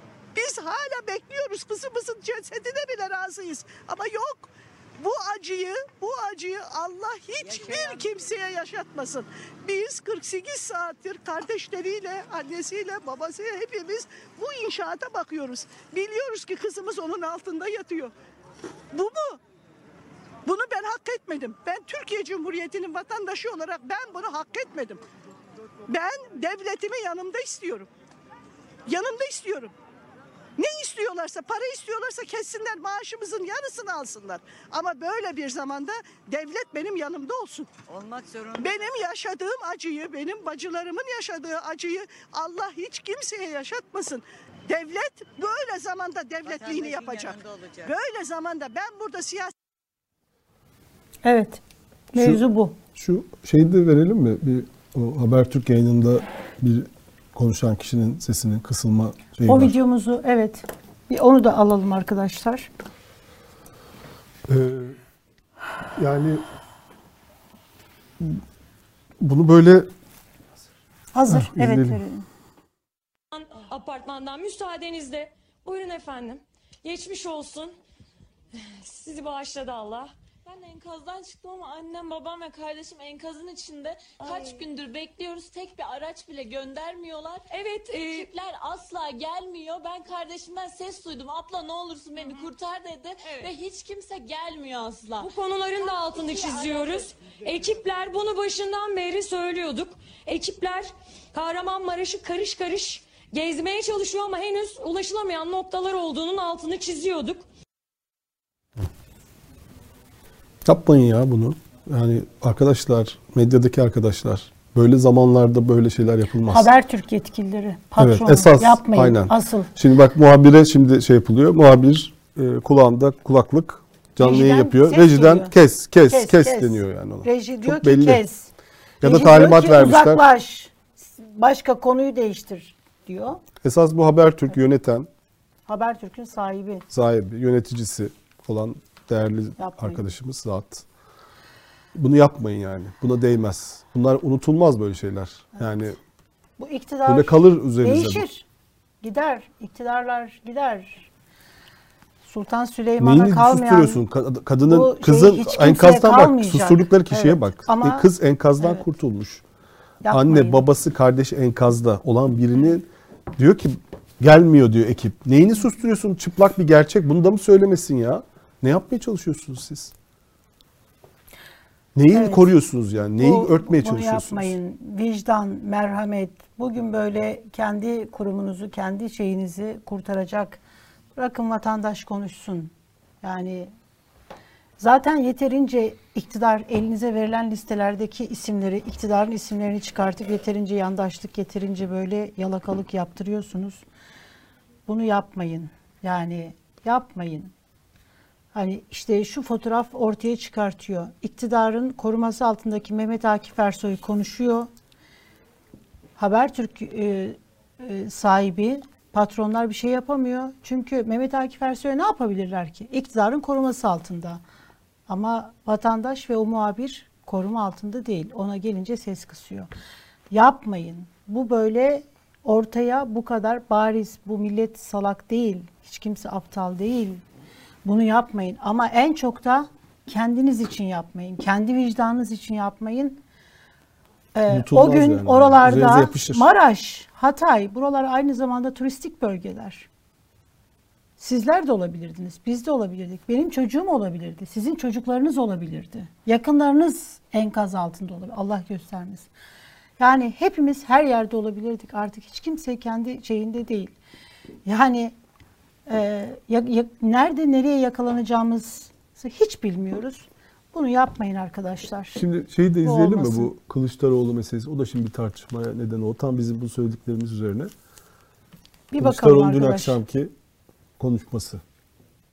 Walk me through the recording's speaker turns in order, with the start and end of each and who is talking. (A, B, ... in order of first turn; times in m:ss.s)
0:00.3-0:18.1 A
0:07.4-0:08.2 B
0:18.9-0:19.4 A
0:20.4-0:25.0 A
0:25.9-0:27.9 A
0:28.9-0:29.7 A
0:30.6-0:37.7 A
0:37.9-0:39.0 B
0:38.5-0:49.5 A
0:46.4-0:47.9 B
0:51.2-0:51.6 C
0:52.1-0:52.8 C
0:52.2-0:52.4 D
0:53.0-0:59.7 D
0:59.4-1:02.7 C
1:04.5-1:05.0 D
1:06.0-1:06.4 D
1:09.2-1:09.9 D
1:11.1-1:12.2 C
1:11.3-1:12.0 D
1:13.3-1:17.8 E
1:18.8-1:20.1 E
1:20.4-1:35.3 F
1:24.2-1:24.6 E
1:27.5-1:28.3 E
1:35.2-1:47.4 E
1:36.2-1:37.1 F
1:50.6-1:56.7 D
1:56.5-1:59.7 C
1:58.0-2:08.2 D
2:04.2-2:05.5 C
2:06.1-2:08.5 C
2:09.0-2:10.2 D
2:09.0-2:13.4 C
2:13.6-2:15.1 D
2:15.7-2:16.8 C
2:16.9-2:20.8 D
2:19.6-2:20.0 C
2:21.9-2:26.0 D
2:26.6-2:28.4 C
2:27.0-2:28.2 D
2:29.0-2:31.1 C
2:32.2-2:34.0 C
2:33.0-2:39.4 D
2:34.7-2:38.1 C
2:38.6-2:38.8 C
2:40.0-2:40.6 C
2:40.1-2:49.9 D
2:51.9-2:54.5 D
2:52.1-2:52.5 C
2:53.2-3:00.6 C
3:01.2-3:03.7 C
3:04.8-3:13.8 C
3:14.9-3:17.5 C
3:18.5-3:24.7 C
3:26.2-3:34.4 C
3:35.1-3:39.7 C
3:40.3-3:47.2 C
3:47.8-3:53.2 C
3:54.3-3:59.9 C
3:54.5-3:56.5 D
4:01.2-4:09.3 C
4:10.0-4:13.9 C
4:14.6-4:15.1 C
4:15.9-4:22.2 C
4:22.1-4:27.7 D
4:22.8-4:23.5 C
4:28.9-4:30.0 C
4:29.0-4:30.3 D
4:31.0-4:31.6 D